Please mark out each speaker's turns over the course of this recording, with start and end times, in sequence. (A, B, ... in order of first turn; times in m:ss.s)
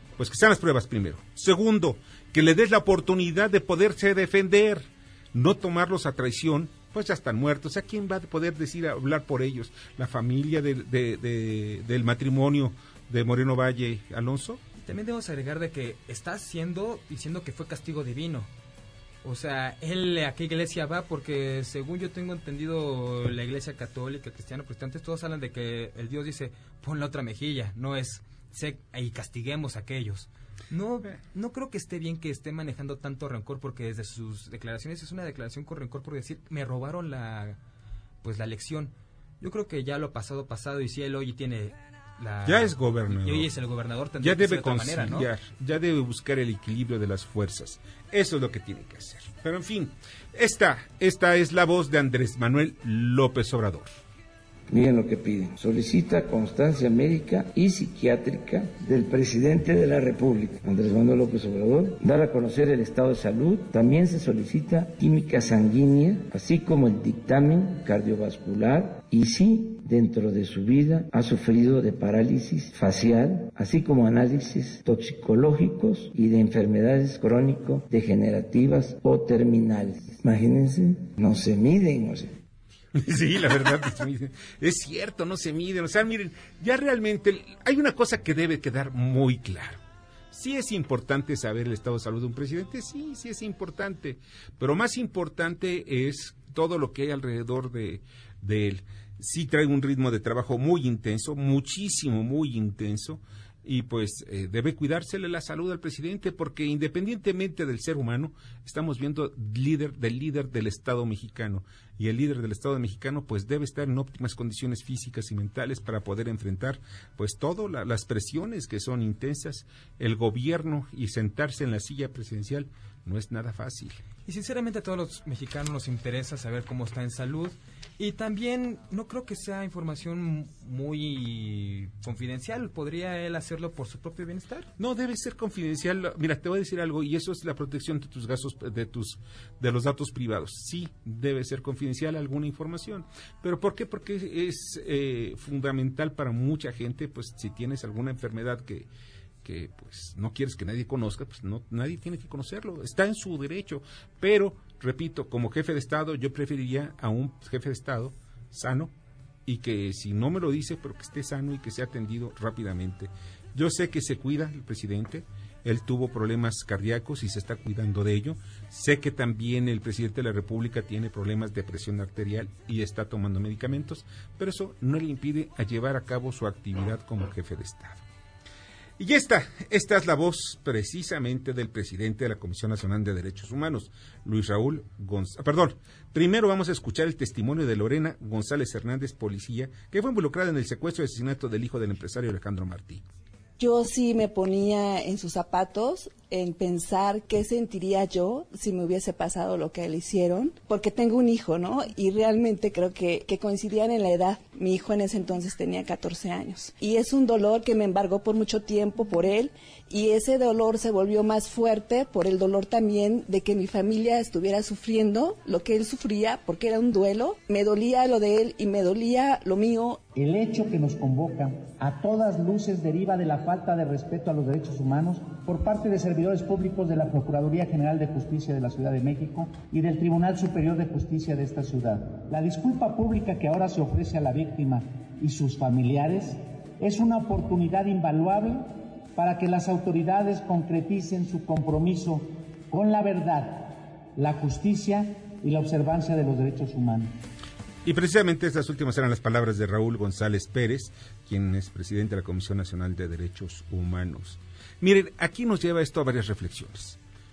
0:00.2-0:14.6 A
0:14.8-0:18.5 B
0:19.2-0:37.6 B
0:38.2-0:45.3 B
0:42.4-0:43.5 A
0:44.2-0:54.0 A
0:54.7-1:22.4 C
1:22.9-1:29.8 A
1:30.3-2:04.0 A
2:04.2-2:14.7 B
2:14.8-2:28.9 A
2:29.4-2:38.9 A
2:39.4-2:58.0 A
2:59.0-3:13.0 A
3:13.6-3:40.0 D
3:40.1-4:07.1 E
4:07.8-4:17.0 A